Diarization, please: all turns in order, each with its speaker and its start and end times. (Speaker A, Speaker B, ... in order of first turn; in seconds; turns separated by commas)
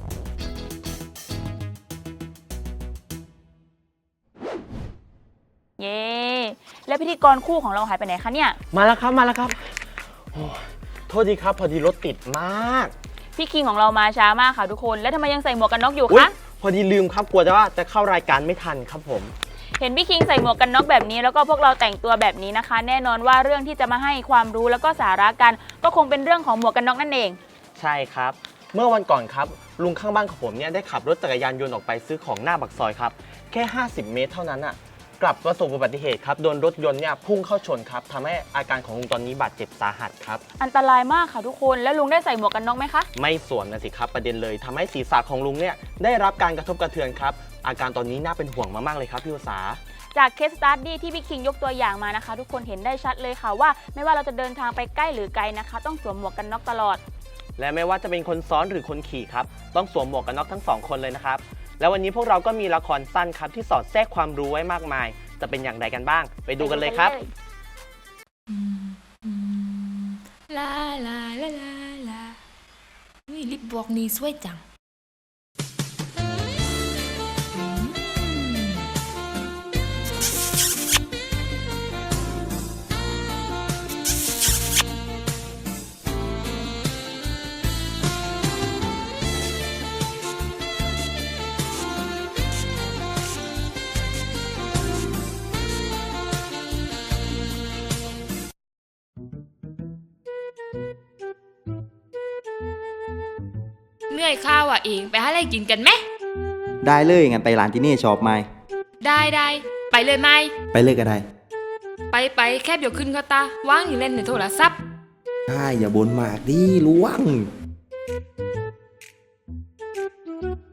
Speaker A: 5.8-8.6, Speaker B: 8.7-9.6, Speaker B: 10.3-12.9, Speaker A: 13.4-16.3, Speaker B: 16.1-19.3, Speaker A: 19.8-27.4, Speaker B: 27.8-40.4, Speaker A: 40.6-43.1, Speaker B: 43.2-49.8, Speaker A: 50.1-57.0, Speaker B: 57.6-67.2, Speaker A: 66.6-67.3, Speaker C: 68.5-72.4, Speaker C: 73.3-74.6, Speaker C: 77.5-78.9, Speaker C: 104.1-106.0, Speaker D: 106.8-108.5, Speaker C: 109.0-110.5, Speaker D: 110.7-111.2, Speaker C: 112.1-114.8, Speaker D: 115.5-117.5